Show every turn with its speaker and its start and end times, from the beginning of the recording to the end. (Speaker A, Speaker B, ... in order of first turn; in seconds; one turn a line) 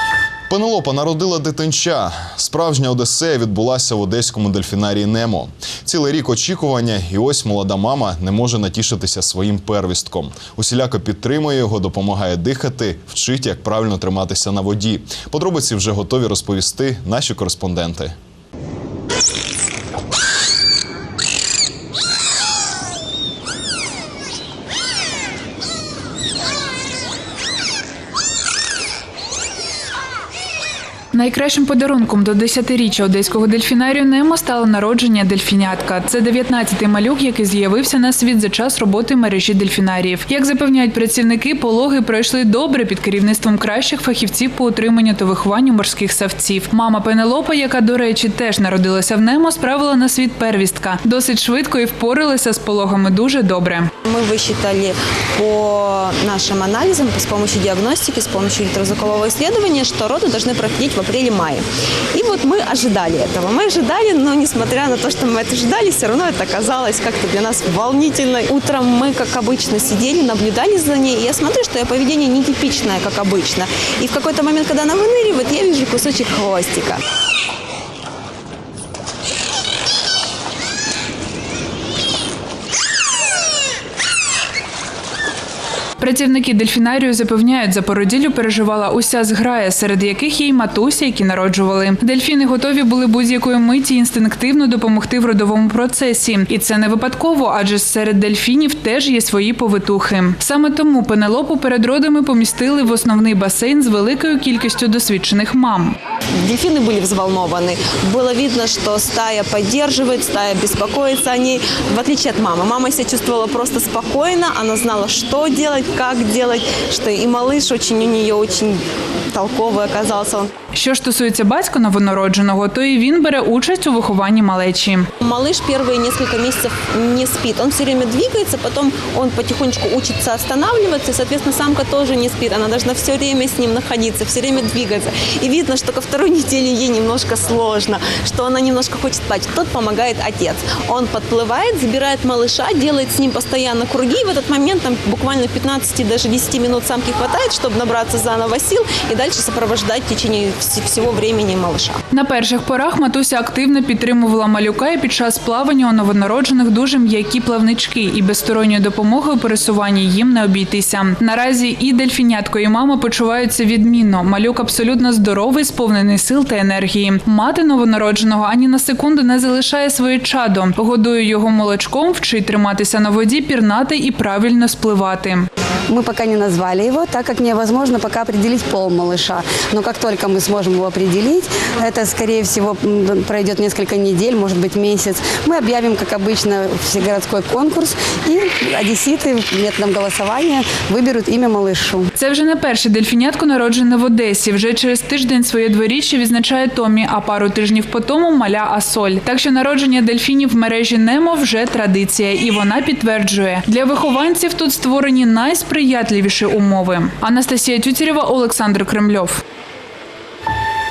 Speaker A: 0.5-18.1
Speaker B: 31.1-53.9
Speaker C: 54.0-77.0
Speaker B: 86.0-106.0
Speaker C: 106.4-120.5
Speaker B: 120.7-125.1
Speaker C: 125.2-152.0
Speaker B: 152.1-175.5
Speaker D: 175.9-192.1
Speaker B: 192.2-209.4